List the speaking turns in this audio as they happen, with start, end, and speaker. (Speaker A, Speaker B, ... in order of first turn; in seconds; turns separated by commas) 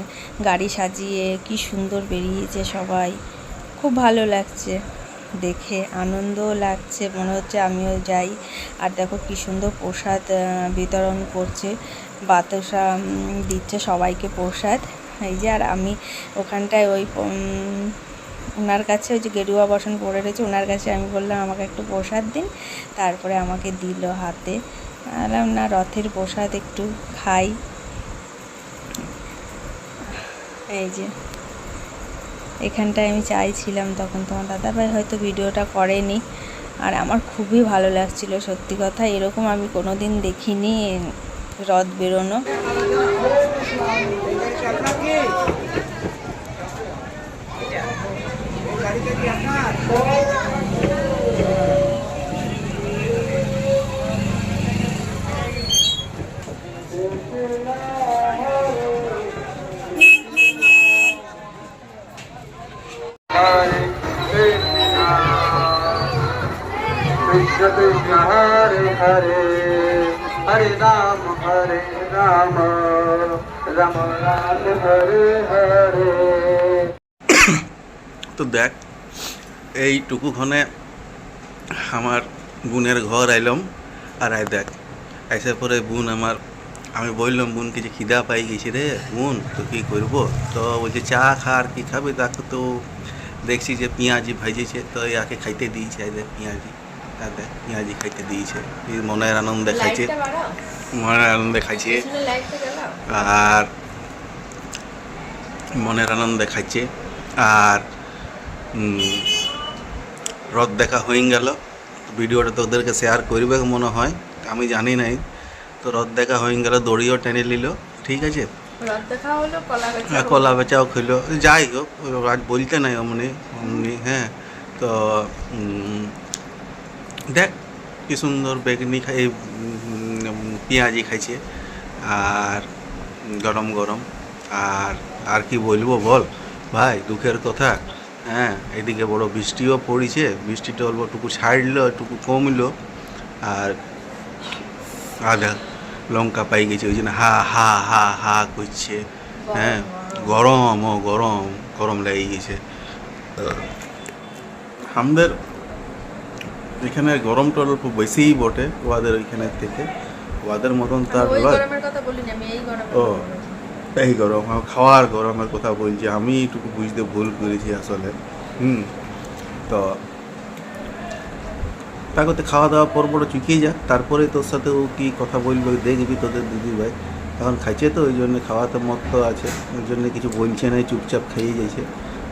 Speaker A: 0.5-3.1, Speaker A: 3.8-4.8, Speaker A: 5.4-8.3, Speaker A: 8.8-11.7, Speaker A: 12.3-12.8, Speaker A: 13.5-17.3, Speaker A: 18.6-24.6, Speaker A: 25.2-27.5, Speaker A: 30.2-31.1, Speaker A: 32.6-36.2, Speaker A: 36.8-40.8, Speaker A: 41.7-42.4, Speaker B: 63.3-66.1, Speaker B: 67.2-76.6, Speaker C: 77.3-77.6, Speaker C: 78.3-78.8, Speaker C: 79.8-80.6, Speaker C: 81.9-83.6, Speaker C: 84.2-84.7, Speaker C: 85.3-86.4, Speaker C: 87.0-92.7, Speaker C: 93.5-100.1, Speaker A: 99.7-100.5, Speaker C: 100.9-102.0, Speaker A: 101.8-103.2, Speaker C: 103.1-103.7, Speaker C: 105.7-106.9, Speaker C: 107.4-107.8, Speaker C: 108.7-109.3, Speaker C: 110.5-115.2, Speaker C: 115.8-118.5, Speaker A: 118.8-120.7, Speaker C: 120.1-126.1, Speaker C: 128.1-131.4, Speaker C: 132.0-132.7, Speaker C: 133.3-142.7, Speaker C: 143.4-143.8, Speaker C: 145.2-149.0, Speaker A: 149.4-150.4, Speaker C: 149.5-152.6, Speaker C: 153.4-153.7, Speaker C: 154.9-155.3, Speaker C: 156.8-159.9, Speaker C: 160.4-161.6, Speaker A: 161.1-163.6, Speaker C: 162.9-163.2, Speaker C: 163.9-168.9, Speaker C: 172.2-181.8